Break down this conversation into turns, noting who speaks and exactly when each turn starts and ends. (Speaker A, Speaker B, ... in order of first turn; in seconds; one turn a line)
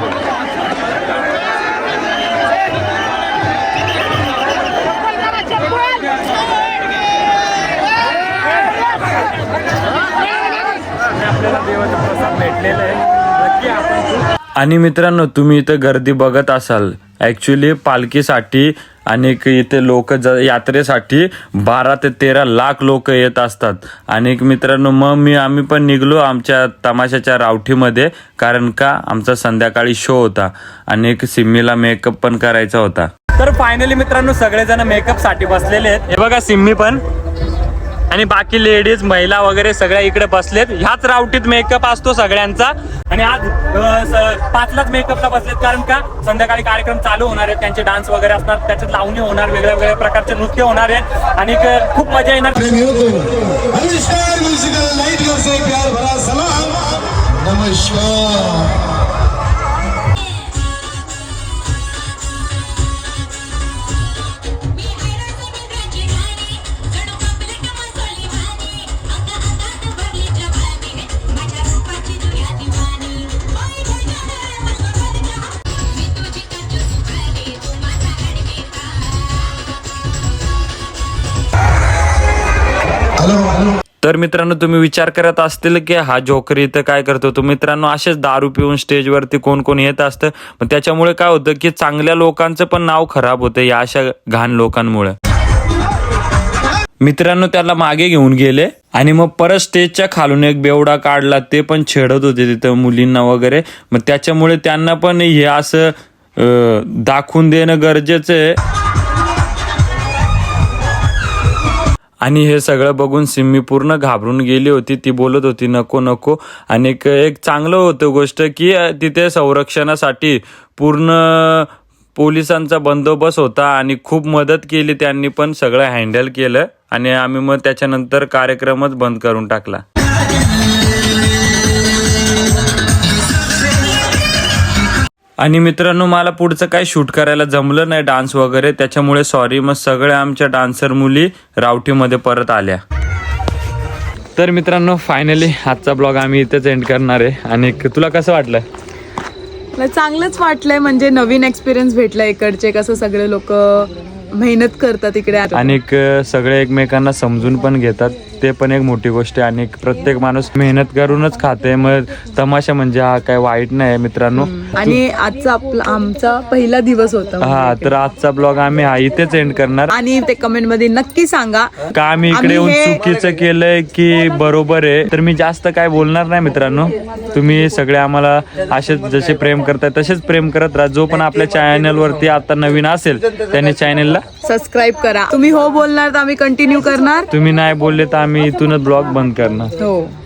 Speaker A: 11.1-14.0
Speaker A: 14.6-37.0
Speaker A: 38.1-52.8
Speaker B: 52.6-58.7
Speaker B: 83.2-83.7
Speaker A: 84.0-95.1
Speaker A: 97.0-108.5
Speaker A: 112.2-129.8
Speaker A: 135.4-142.8
Speaker A: 144.3-148.6
Speaker C: 149.8-155.8
Speaker A: 155.5-165.0
Speaker C: 164.4-167.6
Speaker A: 167.4-169.9
Speaker C: 169.9-171.7
Speaker A: 171.9-184.2
Speaker C: 172.3-173.0
Speaker C: 184.4-187.3
Speaker A: 187.3-189.7
Speaker C: 189.8-190.1